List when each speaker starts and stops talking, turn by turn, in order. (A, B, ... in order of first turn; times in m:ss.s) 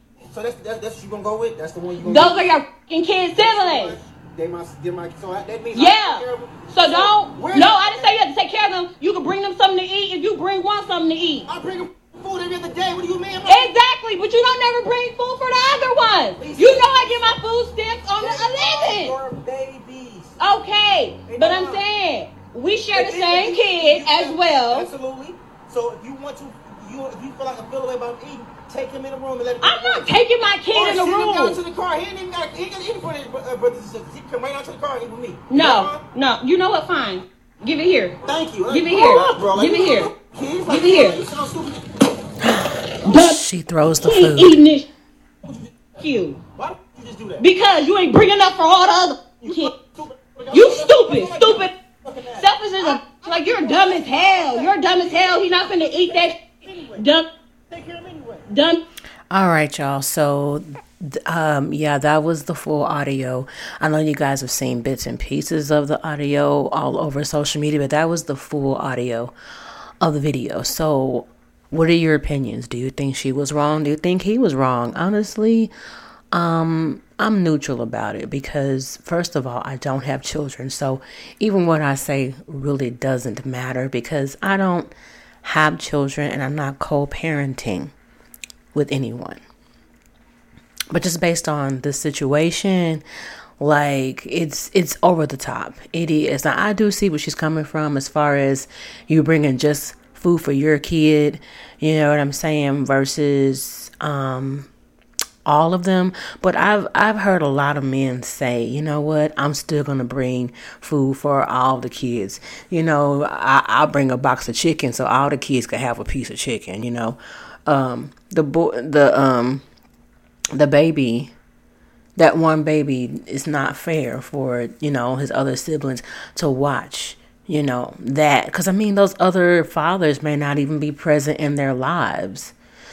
0:00.3-0:02.6 A
0:02.0-0:04.0 B
0:03.4-0:08.1 A
0:05.7-0:11.5 B
0:11.5-0:13.7 A
0:13.5-0:19.1 B
0:16.4-0:17.4 A
0:18.2-0:20.4 A
0:20.4-0:24.9 B
0:21.3-0:21.8 A
0:22.9-0:30.1 A
0:29.6-0:31.6 B
0:30.7-0:36.0 A
0:35.5-0:40.1 B
0:38.2-0:41.8 A
0:40.7-0:41.2 B
0:42.4-0:44.6 C
0:43.0-0:43.4 B
0:44.0-0:44.9 B
0:45.4-0:45.9 A
0:46.0-0:46.4 B
0:46.6-0:47.5 A
0:47.4-0:49.7 B
0:49.4-0:57.1 A
0:50.5-0:51.7 B
0:52.4-0:57.3 B
0:57.7-0:58.4 A
0:58.5-0:58.8 B
0:59.3-1:09.3 C
1:10.0-1:15.7 C
1:16.3-1:24.9 C
1:25.4-1:27.9 C
1:28.7-1:29.4 C
1:30.9-1:33.0 C
1:33.6-1:44.7 C
1:45.5-1:59.6 C
2:00.5-2:01.3 C
2:02.2-2:12.5 C